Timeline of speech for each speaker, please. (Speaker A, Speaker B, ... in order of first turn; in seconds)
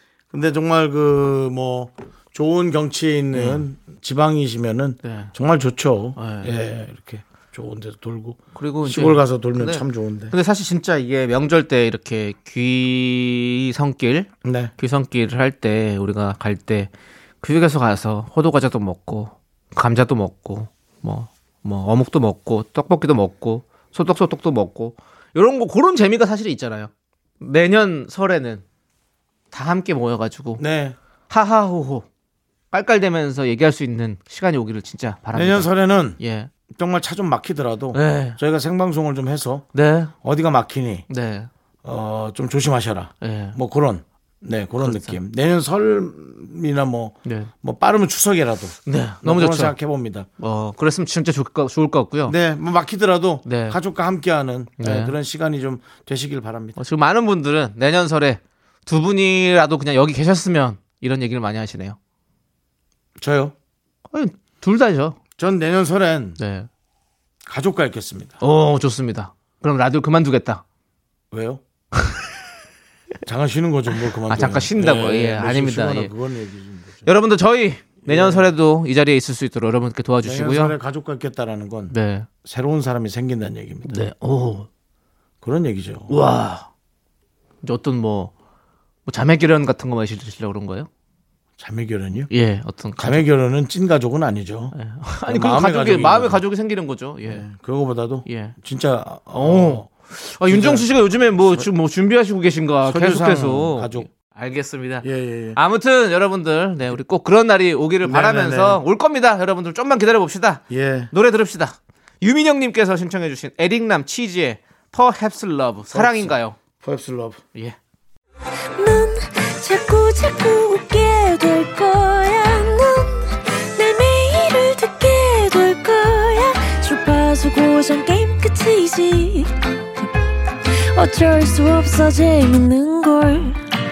Speaker A: 0.3-10.3, 14.4-14.7, 30.6-31.0, 35.3-39.6, 40.2-41.1, 41.8-50.3, 52.2-56.8, 63.2-63.5, 65.4-66.4, 67.5-68.4, 71.3-71.6, 73.2-77.1, 78.0-78.5, 80.2-84.1, 85.4-86.1, 91.6-92.3, 93.0-94.7, 95.2-96.4, 97.2-99.9, 100.4-101.7, 102.8-104.1, 105.0-105.6, 108.0-108.8, 110.7-111.1, 115.9-117.4
Speaker B: 3.3-3.6, 5.0-5.3, 6.2-6.5, 8.5-16.9, 17.4-28.6, 29.5-30.6, 31.3-32.0, 32.7-36.5, 37.9-38.4, 39.7-40.1, 41.1-41.5, 43.2-43.6, 44.8-45.1, 47.2-47.5, 48.9-49.8, 50.4-52.3, 53.5-53.8, 54.8-55.1, 56.8-62.0, 64.1-65.2, 66.4-66.7, 68.4-70.6, 74.3-76.1, 77.0-80.8, 81.9-82.3, 83.9-84.7, 86.1-86.7, 87.6-88.3, 89.0-90.9, 92.3-93.3, 94.7-97.4, 98.3-98.5, 99.3-116.6
Speaker C: 118.7-129.5, 130.7-133.6